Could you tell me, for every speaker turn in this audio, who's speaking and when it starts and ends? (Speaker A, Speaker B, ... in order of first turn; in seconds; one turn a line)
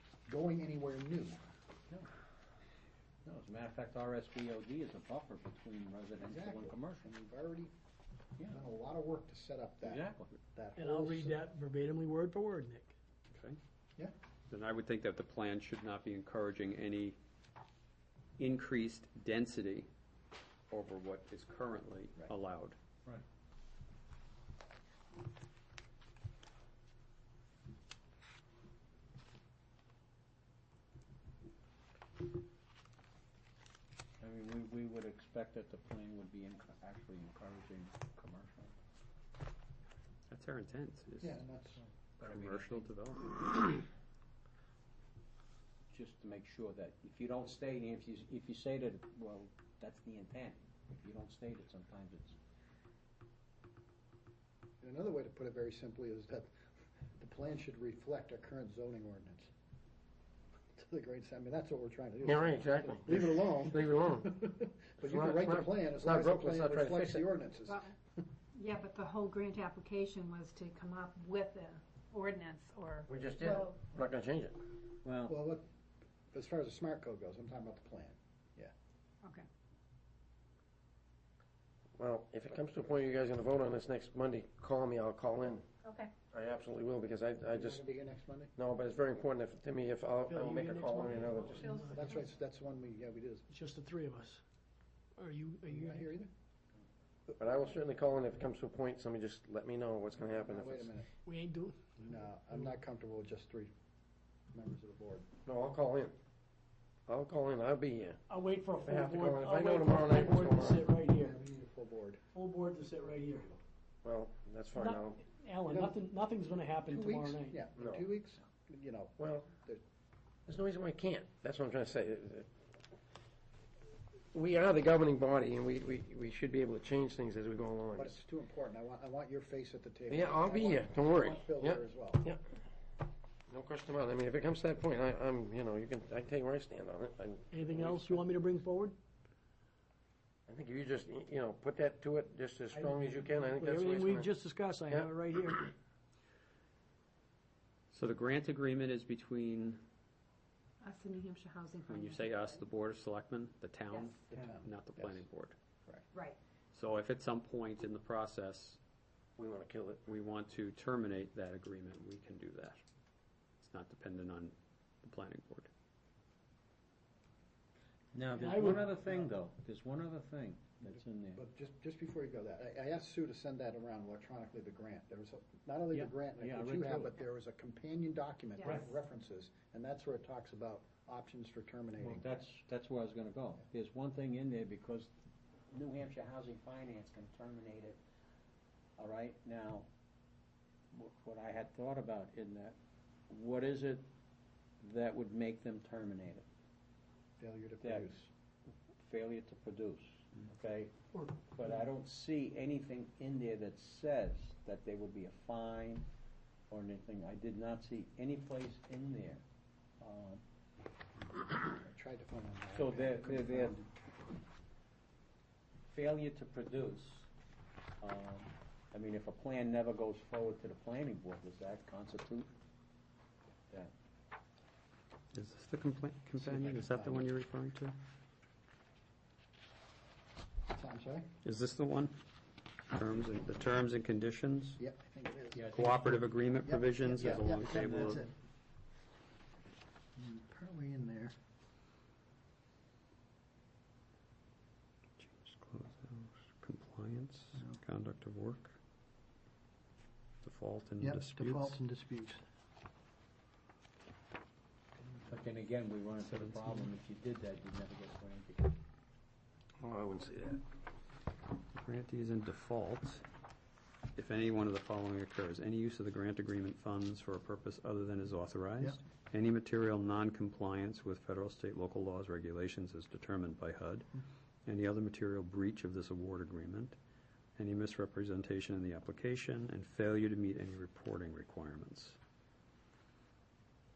Speaker A: 0.3-1.4
Speaker B: 3.2-7.0
Speaker A: 6.2-7.7
Speaker A: 8.5-11.4
Speaker B: 9.8-10.3
Speaker C: 10.8-12.9
Speaker D: 13.3-13.6
Speaker D: 14.5-17.2
Speaker D: 18.4-19.9
Speaker D: 20.7-22.8
Speaker B: 34.2-38.7
Speaker D: 40.3-41.4
Speaker A: 41.2-41.8
Speaker B: 42.2-42.9
Speaker D: 42.2-43.7
Speaker B: 45.9-52.4
Speaker A: 54.8-56.6
Speaker A: 57.1-59.5
Speaker A: 60.7-67.9
Speaker E: 62.2-64.4
Speaker E: 65.0-67.3
Speaker F: 67.7-67.9
Speaker F: 68.5-73.8
Speaker E: 73.1-74.6
Speaker B: 75.0-75.3
Speaker A: 75.3-75.7
Speaker A: 76.3-78.7
Speaker E: 82.0-85.7
Speaker F: 85.8-86.1
Speaker E: 86.3-87.8
Speaker A: 87.5-88.5
Speaker E: 88.5-91.8
Speaker C: 90.2-92.1
Speaker F: 91.6-91.9
Speaker A: 91.9-93.5
Speaker C: 93.5-94.4
Speaker C: 95.2-96.1
Speaker A: 95.7-96.3
Speaker E: 97.4-100.9
Speaker A: 100.3-101.1
Speaker C: 101.2-102.0
Speaker A: 102.0-103.7
Speaker A: 104.5-105.3
Speaker E: 105.5-106.1
Speaker E: 107.1-108.2
Speaker C: 108.3-111.3
Speaker E: 108.8-110.9
Speaker A: 111.0-112.2
Speaker C: 112.3-113.6
Speaker E: 114.0-115.2
Speaker C: 114.7-117.6
Speaker A: 115.7-116.0
Speaker A: 116.8-119.8
Speaker E: 117.8-118.0
Speaker E: 119.2-119.5
Speaker E: 120.5-122.5
Speaker E: 124.3-128.2
Speaker A: 127.9-132.2
Speaker E: 130.1-132.4
Speaker E: 133.5-138.2
Speaker C: 137.5-138.9
Speaker E: 140.5-144.3
Speaker C: 142.7-145.7
Speaker E: 144.9-145.5
Speaker D: 147.9-149.8
Speaker F: 150.8-152.6
Speaker D: 151.9-155.6
Speaker F: 153.9-154.2
Speaker A: 154.3-155.2
Speaker F: 156.1-156.4
Speaker D: 156.7-158.8
Speaker E: 159.4-160.1
Speaker D: 160.1-162.8
Speaker D: 163.6-165.7
Speaker B: 168.1-171.4
Speaker C: 168.4-168.8
Speaker A: 168.6-169.3
Speaker A: 171.3-182.4
Speaker B: 175.9-177.2
Speaker B: 178.7-178.9
Speaker B: 182.0-185.1
Speaker B: 185.7-188.0
Speaker B: 189.0-189.9
Speaker B: 190.9-192.8
Speaker B: 193.3-194.0
Speaker B: 194.8-196.5
Speaker A: 197.4-198.3
Speaker B: 197.8-198.1
Speaker B: 199.0-206.1
Speaker B: 206.7-209.4
Speaker B: 210.0-210.4
Speaker A: 211.6-213.9
Speaker B: 212.7-213.8
Speaker B: 215.9-217.3
Speaker B: 218.0-222.5
Speaker D: 225.3-227.9
Speaker A: 226.4-227.3
Speaker A: 230.7-231.3
Speaker D: 231.4-232.2
Speaker D: 232.9-234.8
Speaker A: 234.8-238.3
Speaker B: 235.5-235.9
Speaker D: 235.7-238.3
Speaker B: 237.2-238.2
Speaker A: 240.2-241.3
Speaker D: 245.2-248.7
Speaker D: 250.4-251.8
Speaker A: 251.0-252.4
Speaker B: 255.3-258.8
Speaker D: 256.4-256.8
Speaker E: 259.8-260.6
Speaker D: 261.7-263.2
Speaker D: 264.1-274.1
Speaker D: 274.6-277.0
Speaker D: 277.6-282.2